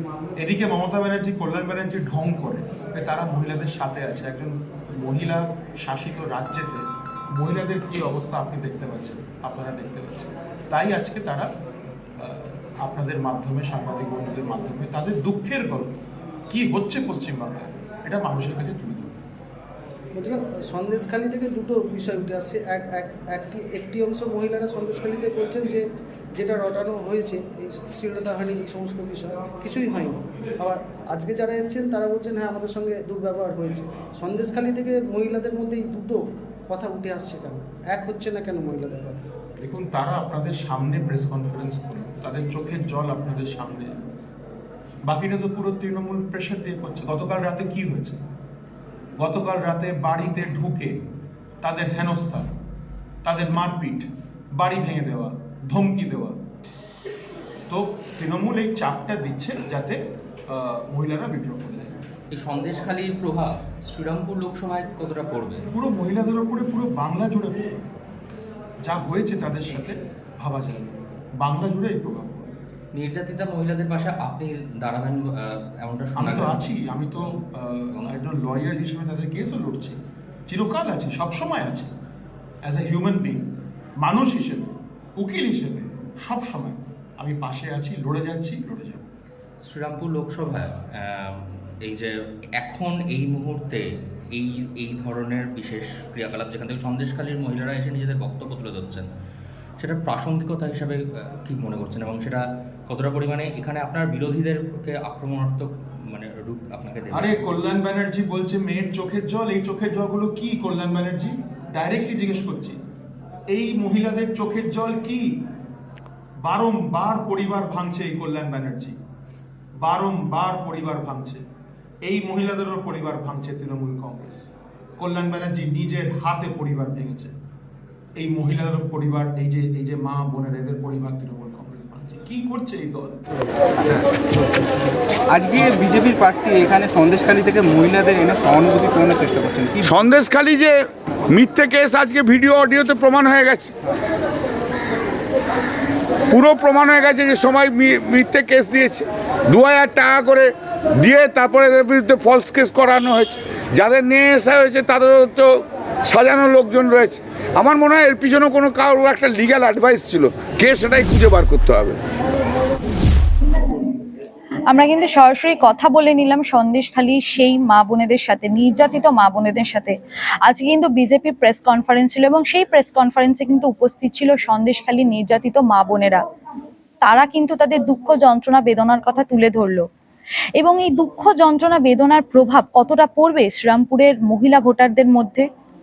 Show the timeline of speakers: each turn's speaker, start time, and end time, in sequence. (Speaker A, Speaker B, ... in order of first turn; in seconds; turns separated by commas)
Speaker A: 0.4-11.5, Speaker A: 12.2-15.9, Speaker A: 16.5-19.1, Speaker B: 20.1-25.8, Speaker B: 26.3-39.3, Speaker A: 39.6-43.9, Speaker A: 45.0-48.2, Speaker A: 49.2-51.0, Speaker A: 51.6-52.5, Speaker A: 53.2-56.4, Speaker A: 57.7-61.9, Speaker C: 62.3-65.6, Speaker A: 65.7-67.6, Speaker A: 68.8-72.5, Speaker C: 72.9-76.6, Speaker A: 76.2-81.9, Speaker C: 77.9-78.2, Speaker A: 82.6-83.4, Speaker A: 84.0-89.0, Speaker C: 89.6-99.1, Speaker C: 99.8-107.4, Speaker A: 107.1-112.8, Speaker A: 113.5-115.4, Speaker A: 116.4-119.0, Speaker A: 119.8-121.4, Speaker A: 122.0-127.3, Speaker A: 128.2-133.2, Speaker D: 135.3-139.9, Speaker E: 139.8-140.8, Speaker E: 141.3-143.7, Speaker E: 146.3-162.0, Speaker F: 164.7-176.2, Speaker F: 177.0-179.9, Speaker F: 180.6-185.5